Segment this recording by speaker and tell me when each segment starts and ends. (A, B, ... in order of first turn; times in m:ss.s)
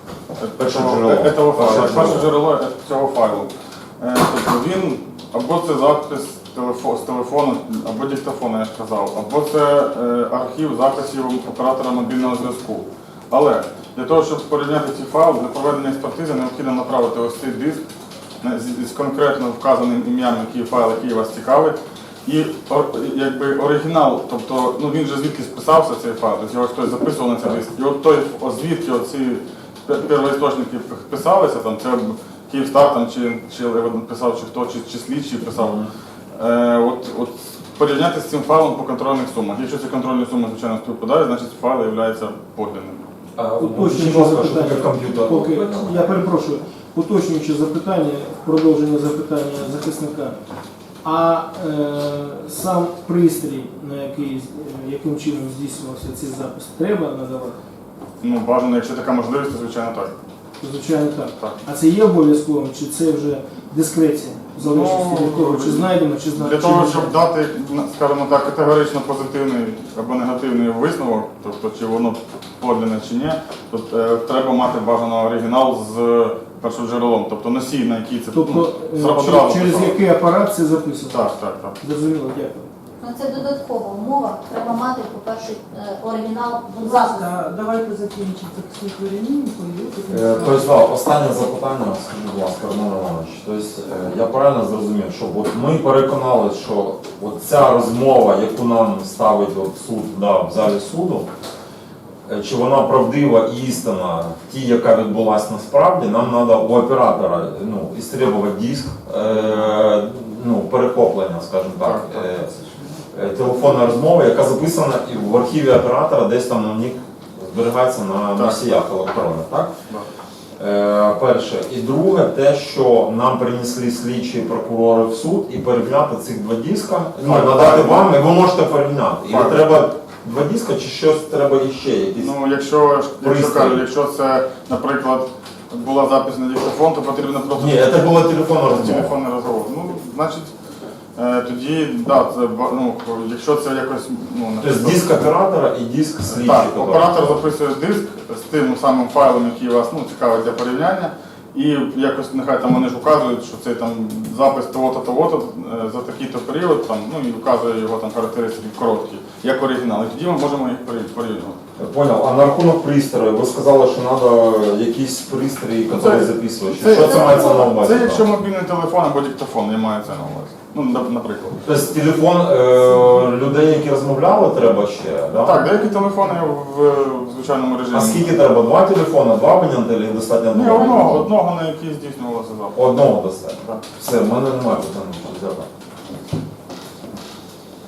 0:00.4-0:17.8 A
0:00.6-0:02.3 B
0:18.4-0:35.8 A
0:35.6-0:35.9 B
0:36.3-0:43.0 A
0:43.4-0:46.2 B
0:43.6-0:50.4 C
0:51.0-0:57.6 C
0:58.2-1:00.1 A
1:00.6-1:07.1 C
1:04.6-1:20.0 A
1:18.3-1:21.3 C
1:21.1-1:21.8 A
1:21.8-1:22.7 C
1:23.0-1:27.3 D
1:26.8-1:30.7 E
1:30.1-1:41.3 B
1:42.2-1:52.5 B
1:51.8-1:52.1 A
1:53.1-1:59.7 B
1:58.3-1:58.6 A
2:00.6-2:12.3 B
2:07.2-2:08.2 A
2:09.3-2:09.7 A
2:12.2-2:17.9 A
2:13.2-2:13.8 B
2:17.6-2:19.1 B
2:18.7-2:20.5 A
2:21.2-2:25.1 A
2:24.6-2:27.4 B
2:26.3-2:41.6 A
2:41.8-2:48.3 B
2:45.9-2:51.6 A
2:47.0-2:47.7 D
2:51.6-2:55.7 B
2:55.4-2:58.3 A
2:57.9-3:01.2 B
3:00.5-3:02.8 A
3:02.7-3:05.7 B